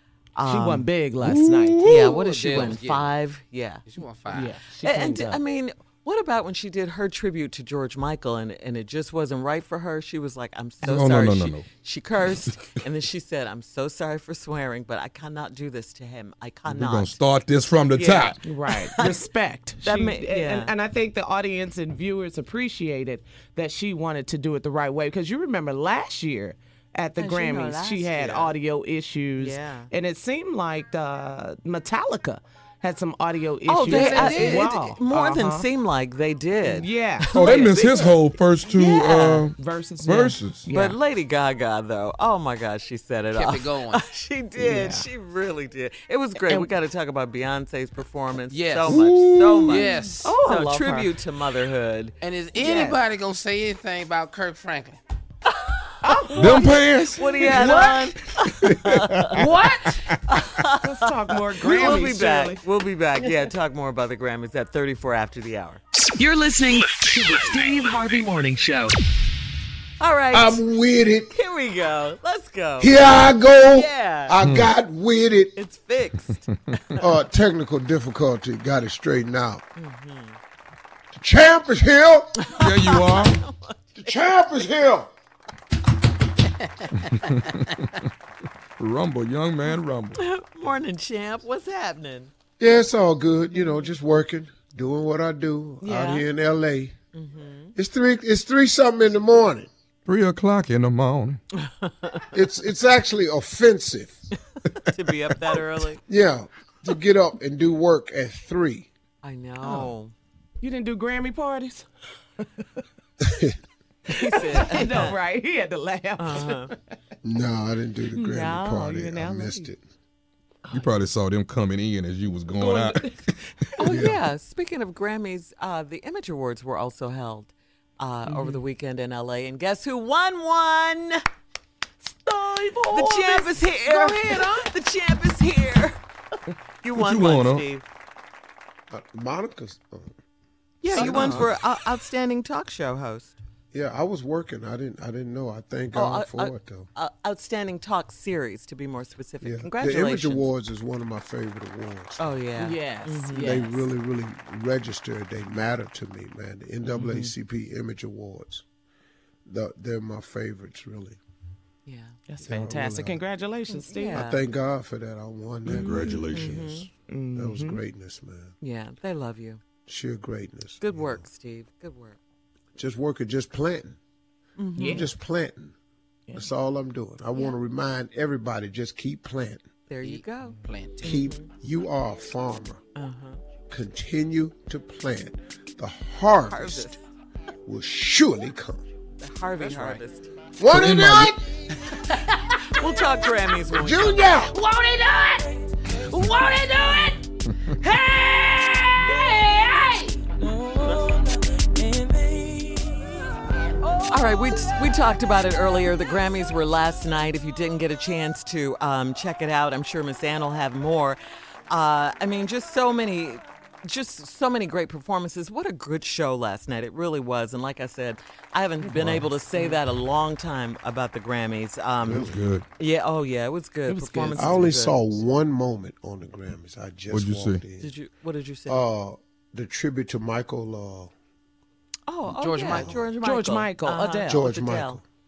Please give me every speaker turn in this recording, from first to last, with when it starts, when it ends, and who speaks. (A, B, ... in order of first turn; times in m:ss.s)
0:00.4-0:00.9 A
0:00.4-0:01.9 B
0:01.2-0:02.1 C
0:01.8-0:03.8 A
0:02.0-0:03.1 D
0:03.8-0:04.6 D
0:04.3-0:05.4 B
0:04.8-0:17.2 A
0:10.8-0:11.6 C
0:16.7-0:18.4 C
0:17.9-0:19.2 A
0:18.4-0:35.7 B
0:19.8-0:20.7 A
0:27.2-0:28.5 A
0:29.4-0:29.9 A
0:33.7-0:38.1 A
0:33.9-0:34.7 D
0:36.6-0:38.1 B
0:37.3-0:40.7 C
0:38.7-0:39.5 A
0:39.5-0:41.0 B
0:40.7-0:52.1 A
0:43.3-0:44.0 D
0:44.6-0:45.1 B
0:46.4-0:46.7 B
0:48.5-0:49.0 D
0:48.9-0:49.8 C
0:49.6-0:50.4 D
0:50.2-0:51.1 B
0:52.2-0:55.0 D
0:52.6-0:53.0 B
0:56.0-0:58.1 B
0:56.1-0:59.5 A
0:56.4-0:57.7 C
0:58.5-0:59.5 C
0:59.4-1:00.0 B
1:00.3-1:05.8 A
1:00.8-1:02.6 B
1:06.2-1:09.0 E
1:10.0-1:10.6 A
1:10.3-1:11.3 F
1:11.3-1:13.1 A
1:12.8-1:15.5 F
1:13.7-1:14.4 A
1:14.4-1:14.7 C
1:15.6-1:16.5 A
1:17.0-1:19.6 F
1:19.8-1:20.4 A
1:21.1-1:22.3 F
1:22.4-1:24.1 A
1:22.6-1:23.4 C
1:24.0-1:25.1 F
1:27.1-1:27.8 C
1:28.8-1:30.2 C
1:30.2-1:32.3 A
1:32.6-1:36.9 F
1:35.8-1:36.2 A
1:37.1-1:37.7 A
1:37.7-1:39.7 F
1:40.0-1:41.4 C
1:41.6-1:42.3 A
1:42.3-1:44.2 F
1:44.9-1:46.0 A
1:46.1-1:48.9 F
1:49.2-1:50.1 A
1:49.6-1:49.9 B
1:50.6-1:51.9 B
1:52.4-1:52.6 B
1:53.2-1:53.5 F
1:54.1-1:55.2 A
1:54.1-1:56.7 B
1:56.2-1:56.7 A
1:57.2-1:59.8 F
1:58.2-1:59.1 A
1:58.8-1:59.6 B
2:00.6-2:00.9 B
2:00.7-2:03.2 C
2:02.6-2:03.1 B
2:03.8-2:11.2 A
2:03.8-2:04.2 F
2:08.2-2:08.6 B
2:12.0-2:14.7 B
2:12.9-2:16.0 A
2:16.8-2:17.8 A
2:16.9-2:17.6 C
2:18.9-2:20.2 F
2:20.8-2:23.4 A
2:20.9-2:21.4 B
2:20.9-2:21.5 F
2:23.7-2:26.9 F
2:25.9-2:30.5 A
2:29.4-2:32.2 F
2:32.2-2:33.6 A
2:32.6-2:33.8 B
2:33.4-2:38.6 F
2:37.0-2:37.3 B
2:39.4-2:41.2 F
2:41.8-2:42.2 A
2:42.3-2:44.3 B
2:42.4-2:43.2 F
2:43.7-2:44.4 A
2:44.1-2:46.8 F
2:45.7-2:46.8 C
2:46.3-2:46.9 A
2:47.1-2:47.8 B
2:47.3-2:48.5 F
2:48.6-2:49.6 A
2:49.9-2:51.2 F
2:50.8-2:52.2 A
2:52.8-2:54.0 F
2:54.6-2:55.1 A
2:54.8-2:55.1 B
2:54.8-2:55.7 F
2:56.3-2:59.7 F
2:59.9-3:01.5 A
3:00.0-3:01.2 D
3:01.0-3:02.8 F
3:03.0-3:03.4 A
3:03.7-3:06.9 F
3:06.5-3:07.0 A
3:07.6-3:08.8 F
3:09.2-3:10.3 A
3:10.6-3:11.5 F
3:10.7-3:11.3 C
3:12.7-3:14.4 A
3:13.7-3:14.6 F
3:14.5-3:15.4 D
3:16.1-3:17.2 D
3:17.8-3:20.2 D
3:20.4-3:23.3 B
3:24.1-3:31.2 A
3:31.7-3:45.1 A
3:38.8-3:39.8 B
3:42.0-3:42.6 C
3:42.0-3:42.3 F
3:43.9-3:44.7 B
3:44.3-3:47.9 F
3:47.1-3:47.6 C
3:47.8-3:48.8 A
3:48.7-3:51.1 F
3:52.1-3:55.0 A
3:52.4-3:52.9 D
3:52.7-3:53.0 F
3:53.2-3:54.5 B
3:54.3-3:55.0 F